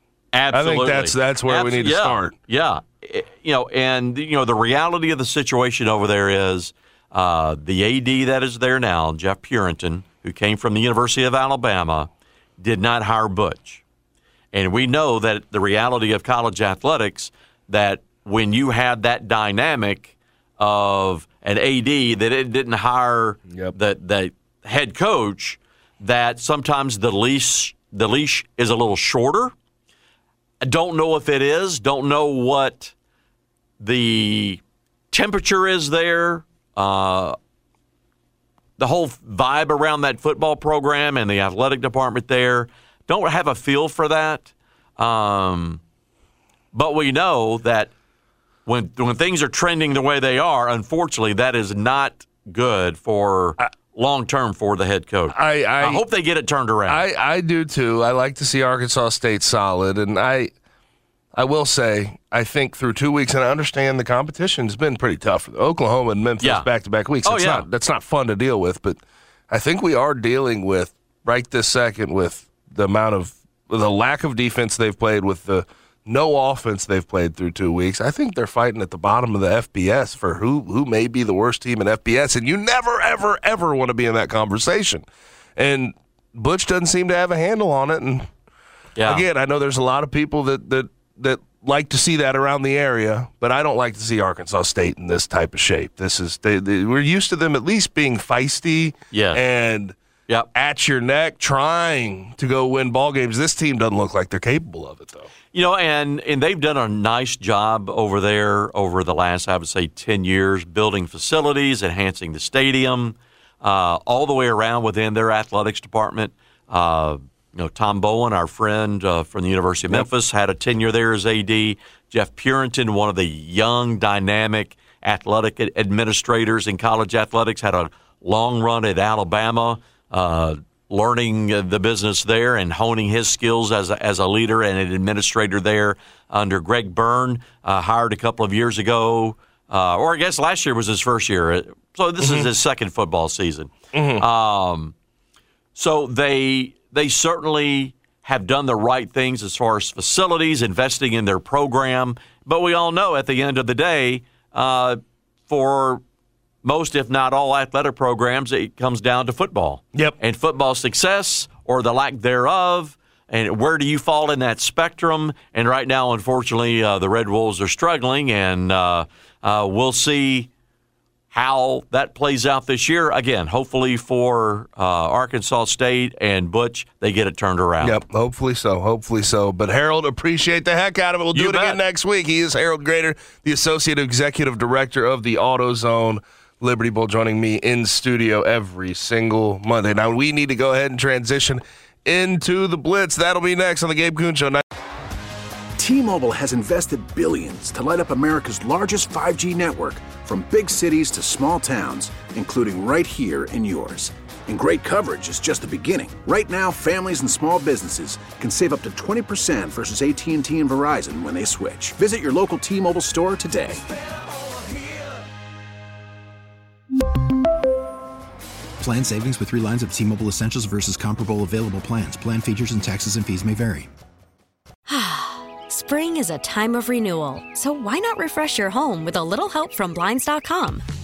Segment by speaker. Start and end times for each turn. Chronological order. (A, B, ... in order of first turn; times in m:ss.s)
0:00.3-0:13.8 A
0:00.5-0:02.3 B
0:14.5-0:29.5 A
0:30.6-0:32.9 A
0:33.8-0:34.6 A
0:35.1-0:37.4 A
0:38.8-0:45.8 A
0:46.7-0:47.9 A
0:48.6-0:57.0 A
0:55.3-0:56.0 B
0:56.9-1:00.5 B
1:01.3-1:28.3 B
1:06.4-1:06.7 A
1:07.2-1:07.6 A
1:29.0-1:29.2 A
1:29.0-1:40.0 B
1:39.1-1:39.4 A
1:40.5-1:45.3 B
1:45.5-2:24.9 A
2:22.2-2:22.5 B
2:23.9-2:24.2 B
2:25.7-2:36.0 A
2:36.6-2:50.5 A
2:51.3-2:58.0 A
2:57.8-3:14.6 B
3:01.3-3:01.8 A
3:15.8-3:33.8 C
3:38.8-3:43.9 D
3:44.9-3:50.8 E